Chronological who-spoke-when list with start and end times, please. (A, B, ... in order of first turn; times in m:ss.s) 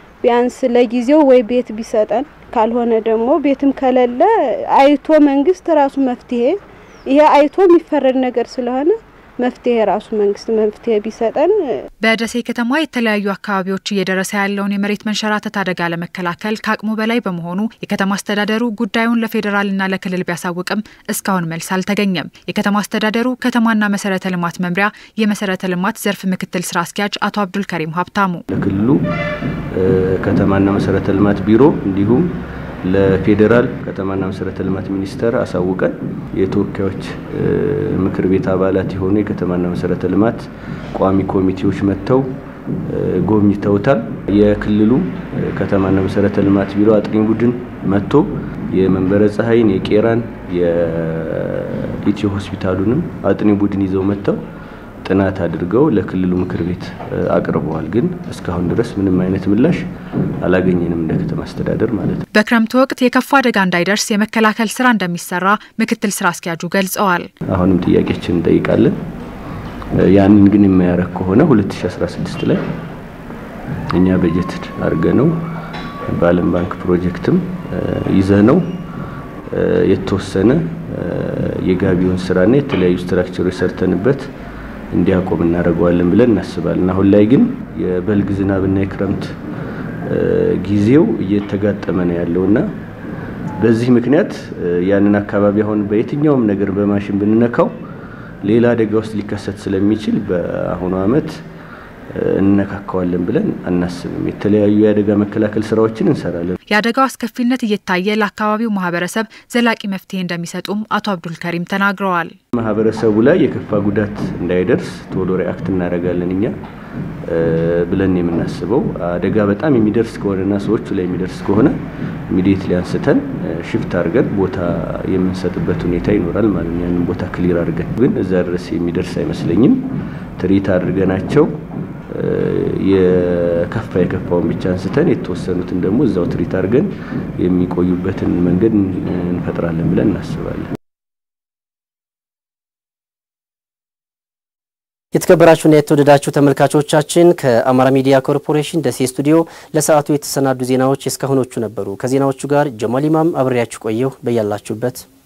0:00.2-0:11.8 A
0:12.0-0:28.4 B
0:28.5-0:29.0 C
0:29.7-0:32.3 C
0:32.8-0:40.4 C
0:40.9-0:42.3 C
0:42.9-0:54.4 C
0:55.0-0:59.8 C
1:00.4-1:02.2 C
1:02.3-1:07.3 B
1:07.5-1:09.0 C
1:10.0-1:12.6 C
1:13.9-1:15.3 C
1:16.1-1:18.6 C
1:19.5-1:24.2 C
1:24.9-1:29.3 C
1:30.1-1:32.6 C
1:33.6-1:37.7 C
1:38.4-1:41.3 C
1:42.1-1:46.6 C
1:46.7-1:52.3 B
1:52.6-1:56.5 C
1:57.3-2:01.8 C
2:02.3-2:09.8 C
2:10.4-2:11.5 C
2:12.1-2:20.7 C
2:25.1-2:35.0 D